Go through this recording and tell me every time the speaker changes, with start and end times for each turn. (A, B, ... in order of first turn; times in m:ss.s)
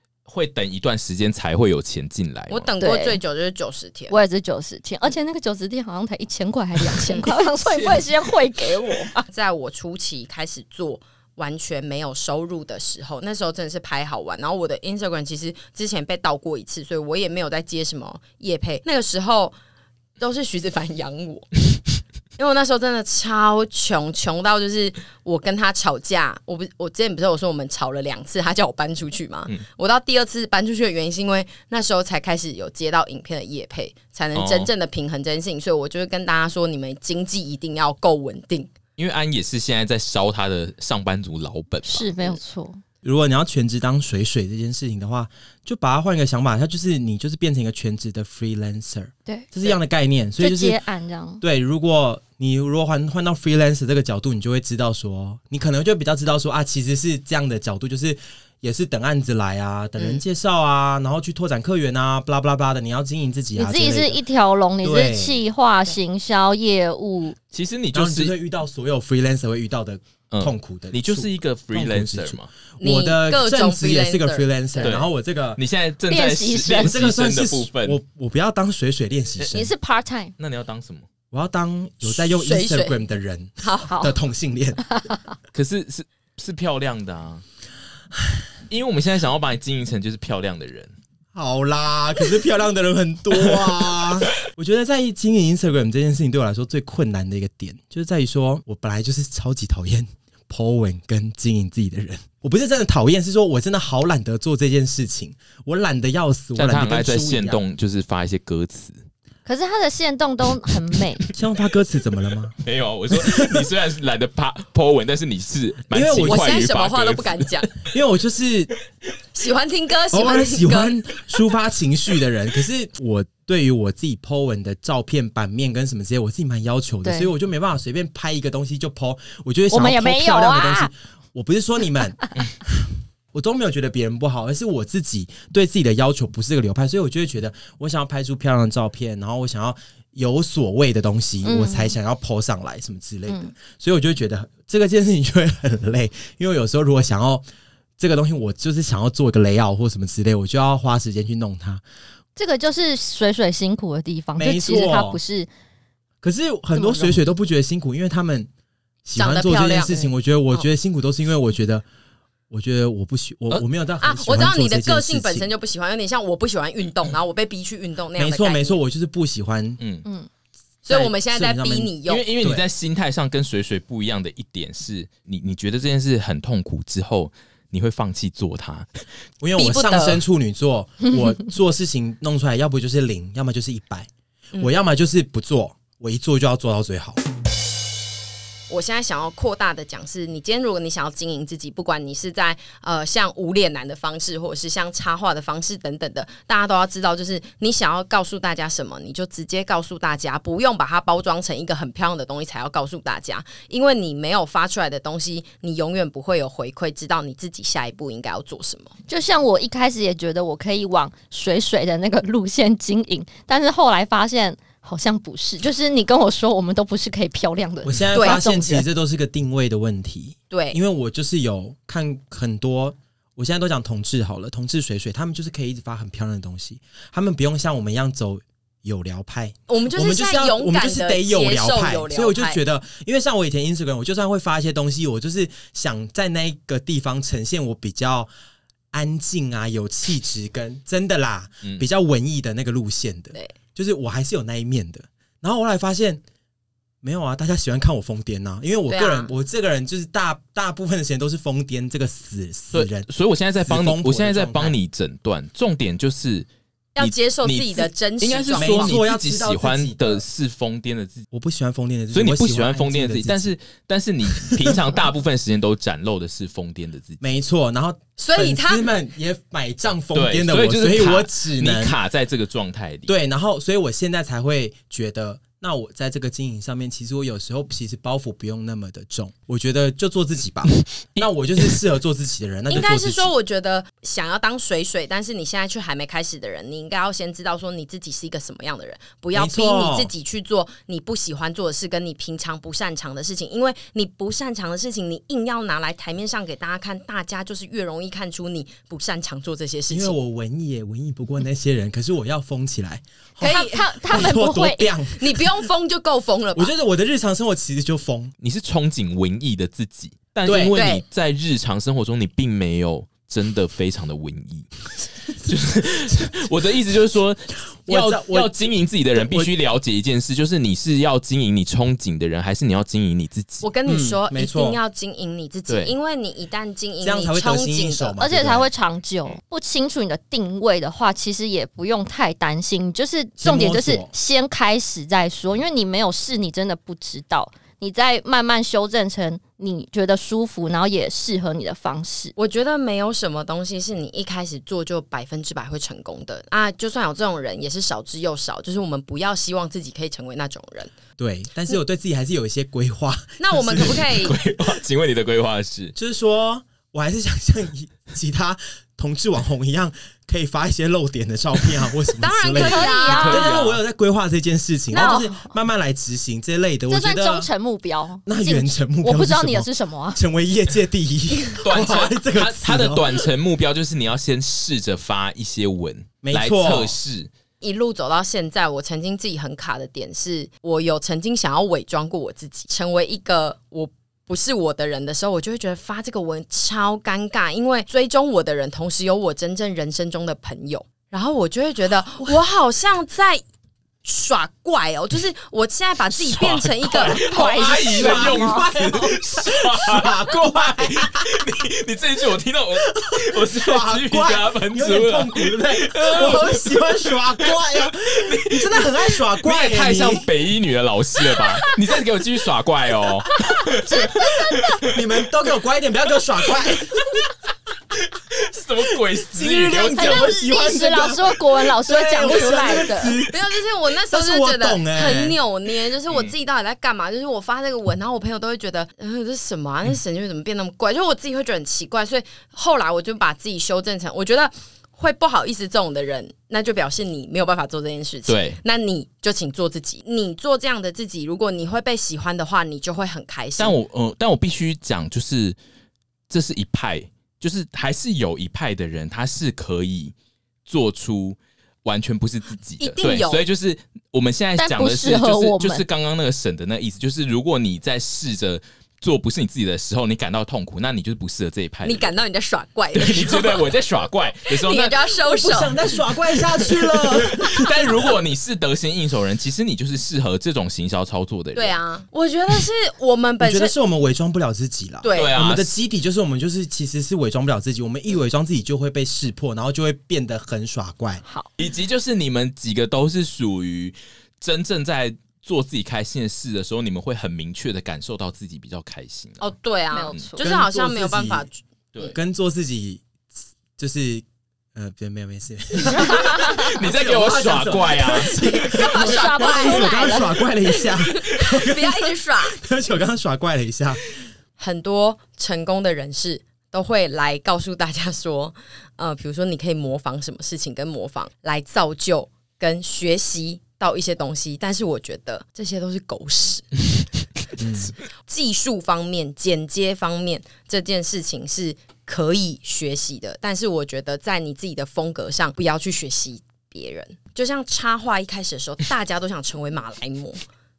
0:00.3-0:02.7 A
0:02.5-0:04.2 B
0:02.8-0:03.2 C
0:04.1-0:09.2 C
0:07.6-0:08.0 A
0:09.3-0:19.6 B
0:20.2-0:21.5 B
0:22.4-0:38.7 B
0:34.3-0:34.7 A
0:39.0-0:42.4 A
0:41.9-0:42.8 C
0:43.0-0:50.8 D
0:50.4-0:51.4 C
0:51.4-1:04.2 D
1:03.6-1:07.4 C
1:04.8-1:05.4 D
1:07.5-1:08.3 A
1:07.9-1:15.6 D
1:10.3-1:12.5 A
1:12.8-1:15.0 B
1:14.8-1:18.0 A
1:16.1-1:17.0 C
1:16.8-1:19.7 D
1:19.5-1:20.3 C
1:20.4-1:21.1 A
1:21.3-1:24.8 D
1:22.1-1:23.0 B
1:23.6-1:23.9 B
1:23.8-1:24.2 C
1:24.8-1:25.4 C
1:25.5-1:27.4 A
1:28.7-1:30.9 A
1:31.3-1:47.6 D
1:46.6-1:49.0 A
1:49.5-1:51.3 C
1:51.3-1:52.6 D
1:52.6-1:57.8 A
1:53.1-1:53.7 D
1:55.9-1:56.6 D
1:56.2-1:57.7 B
1:57.8-1:58.7 D
1:59.3-2:01.0 B
2:00.1-2:27.4 D
2:07.0-2:07.3 C
2:09.7-2:10.9 C
2:21.4-2:21.9 C
2:23.3-2:23.5 C
2:28.0-2:31.8 D
2:32.4-2:35.5 C
2:34.4-2:35.2 D
2:36.2-2:38.5 D
2:36.8-2:37.2 C
2:39.1-2:41.8 D
2:39.2-2:40.6 B
2:42.5-2:45.5 D
2:44.0-2:48.8 B
2:48.2-2:49.8 D
2:49.8-2:50.1 A
2:50.8-2:52.3 B
2:50.9-2:52.6 D
2:52.1-2:58.9 A
2:59.4-3:07.2 D
2:59.6-3:00.2 B
3:08.7-3:28.9 B
3:29.1-3:38.9 C
3:37.8-3:58.3 D
3:38.1-3:38.5 B
3:40.5-3:40.8 B
3:49.7-3:52.6 B
3:58.9-4:06.2 D
4:07.0-4:13.1 D
4:08.9-4:09.3 B
4:12.7-4:21.3 A
4:13.6-4:14.8 D
4:17.0-4:19.0 B
4:18.6-4:20.2 D
4:21.3-4:23.5 D
4:22.1-4:27.2 A
4:24.5-4:24.8 D
4:27.2-4:32.0 D
4:28.2-4:28.9 B
4:30.1-4:33.1 A
4:33.1-4:43.3 D
4:42.7-5:00.2 B
4:49.3-4:50.1 D
4:59.9-5:05.6 D
5:03.4-5:03.8 B
5:03.4-5:04.9 C
5:05.2-5:06.7 B
5:06.6-5:08.3 D
5:08.4-5:14.7 A
5:10.4-5:10.8 D
5:10.7-5:11.0 B
5:15.3-5:23.7 A
5:17.9-5:18.5 D
5:19.2-5:19.5 D
5:23.6-5:28.2 B
5:23.9-5:24.8 D
5:25.7-5:25.9 A
5:27.0-5:28.7 D
5:28.2-5:42.3 C
5:33.4-5:34.1 D
5:42.4-5:50.9 B
5:51.2-5:54.2 D
5:53.4-5:54.4 B
5:53.8-5:55.9 A
5:56.0-6:07.5 D
6:02.2-6:03.5 B
6:02.6-6:03.5 C
6:03.1-6:03.8 A
6:04.9-6:05.6 C
6:05.0-6:05.2 B
6:06.9-6:10.2 C
6:08.3-6:13.2 D
6:11.6-6:17.3 A
6:16.2-6:17.0 D
6:17.6-6:33.4 B
6:34.0-6:37.8 B
6:36.1-6:55.0 A
6:37.1-6:38.7 C
6:37.5-6:41.5 D
6:43.0-6:50.3 D
6:54.3-6:54.6 C
6:54.8-6:57.2 D
6:57.0-6:57.2 A
6:57.9-7:00.3 A
6:58.8-7:05.4 D
6:59.7-7:03.2 C
7:03.3-7:23.8 B
7:18.3-7:18.6 A
7:23.6-7:25.6 A
7:26.3-7:30.1 A
7:30.7-7:42.1 A
7:32.8-7:33.4 B
7:34.6-7:35.8 C
7:41.8-7:43.7 B
7:42.9-7:45.1 A
7:44.5-7:45.8 B
7:45.2-7:48.0 D
7:46.6-7:51.8 A
7:51.6-7:53.7 B
7:53.4-8:01.2 D
7:55.0-7:55.4 B
7:55.1-7:55.8 A
8:01.6-8:09.5 A
8:09.4-8:12.1 B
8:09.9-8:10.4 C
8:10.4-8:11.5 D
8:12.1-8:13.0 D
8:13.8-8:24.0 D
8:16.0-8:16.6 C
8:16.0-8:18.4 A
8:18.3-8:22.6 B
8:18.7-8:20.4 C
8:24.6-8:36.7 B
8:37.6-8:37.9 D
8:38.2-8:50.4 B